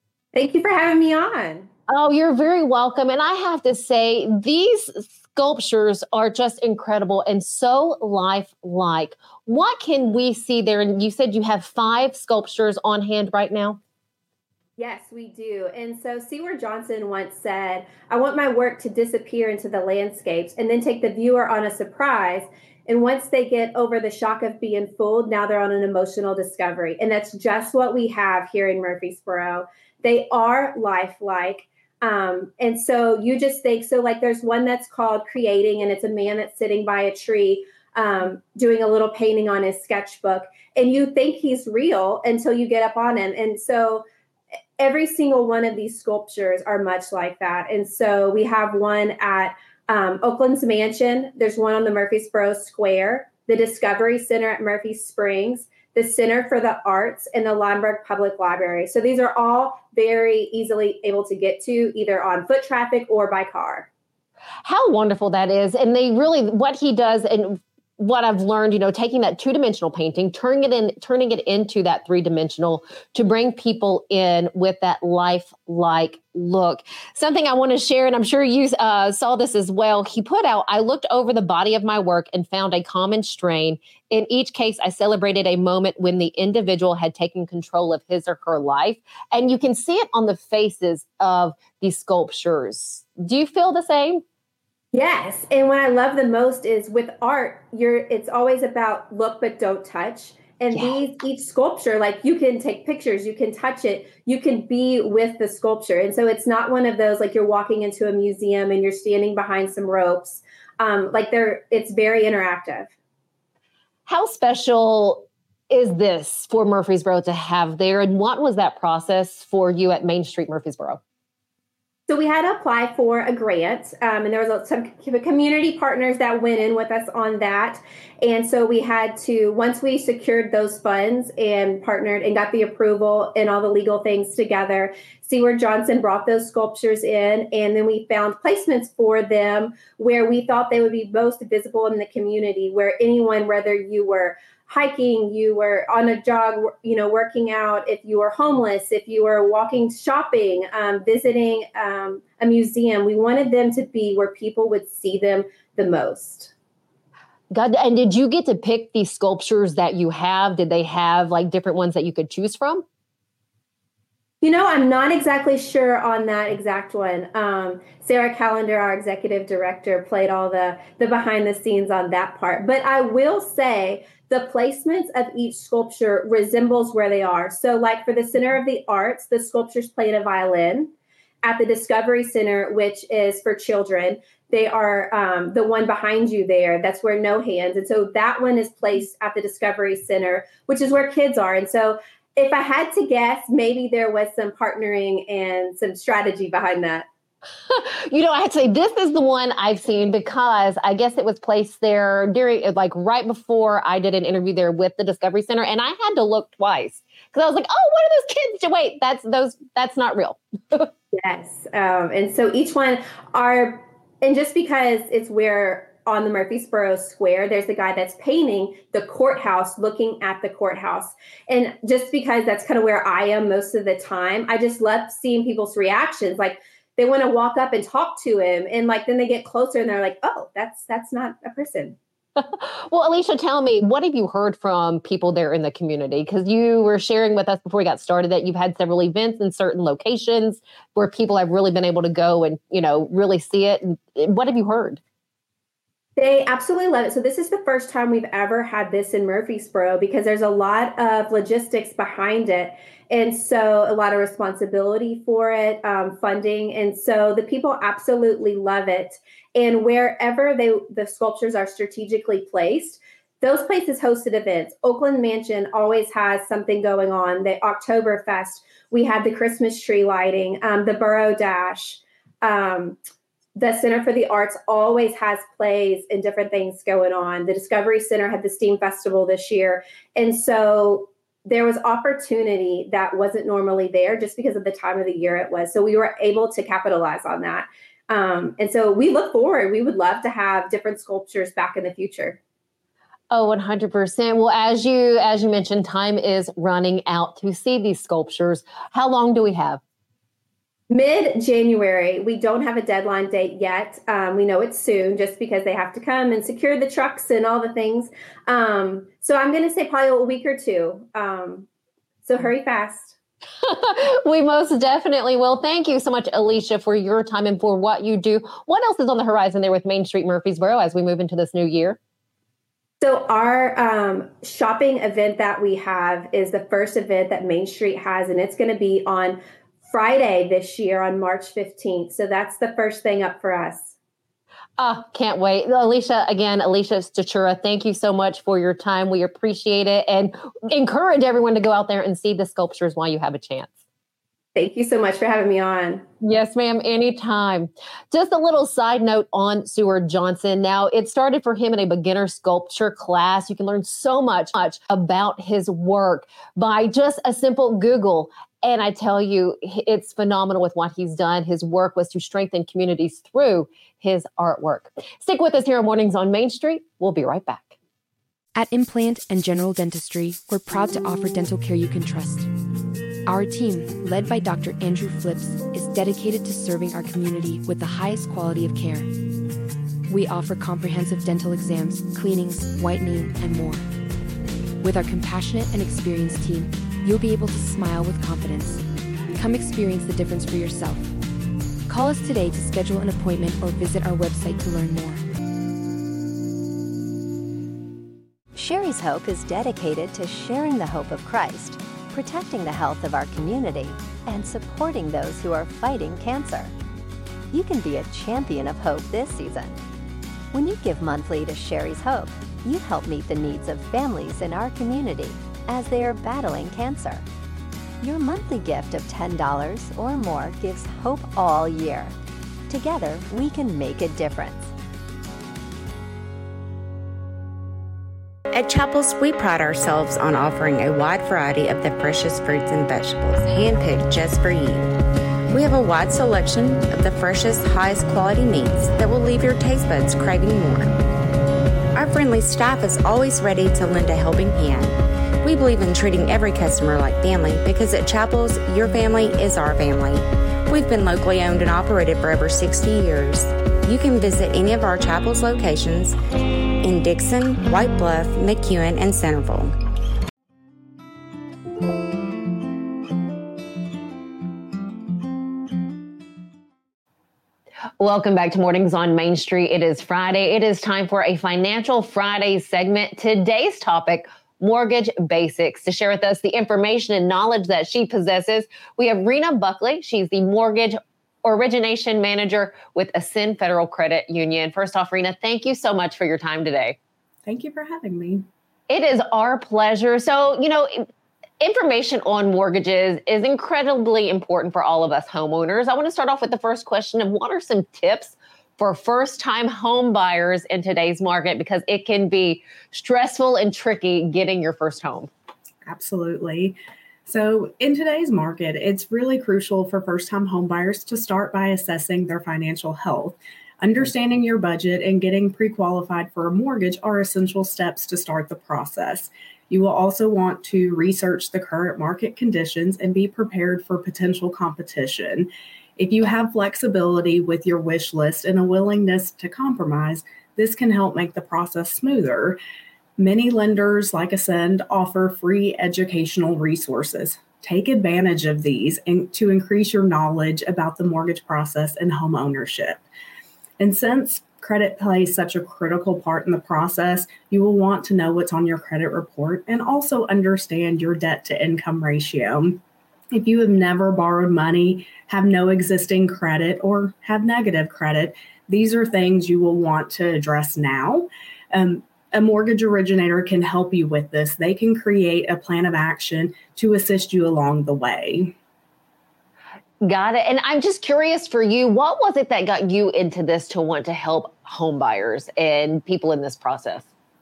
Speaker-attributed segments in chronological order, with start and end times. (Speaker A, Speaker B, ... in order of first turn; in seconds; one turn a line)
Speaker A: 0.3-1.7
Speaker B: 1.9-13.8
Speaker A: 14.8-44.0
Speaker A: 44.8-63.9
Speaker B: 64.6-94.2
Speaker A: 94.9-112.9
Speaker B: 100.7-101.0
Speaker B: 114.1-121.0
Speaker A: 122.1-156.5
Speaker B: 157.5-162.8
Speaker A: 164.4-180.9
Speaker A: 181.4-197.1
Speaker B: 197.7-210.9
Speaker A: 211.1-231.9
Speaker B: 232.3-245.0
Speaker A: 246.2-273.0
Speaker A: 273.5-292.4
Speaker B: 293.3-299.8
Speaker A: 300.9-311.7
Speaker A: 312.2-313.1
Speaker B: 313.6-322.0
Speaker A: 323.0-333.9
Speaker B: 334.8-343.8
Speaker A: 344.6-346.0
Speaker B: 346.2-367.7
Speaker C: 368.5-372.5
Speaker C: 373.3-379.1
Speaker C: 380.1-383.9
Speaker C: 384.8-391.1
Speaker C: 391.9-395.3
Speaker D: 398.5-406.7
Speaker D: 407.5-409.8
Speaker D: 410.5-417.2
Speaker D: 418.0-422.1
Speaker D: 422.7-424.7
Speaker E: 428.5-434.9
Speaker E: 435.5-441.0
Speaker E: 441.9-456.2
Speaker E: 456.8-459.7
Speaker B: 468.0-487.0
Speaker F: 487.4-488.4
Speaker B: 488.9-491.1
Speaker B: 491.6-505.3
Speaker F: 505.8-532.6
Speaker F: 533.2-543.0
Speaker F: 543.8-552.8
Speaker F: 553.3-568.5
Speaker B: 570.0-577.1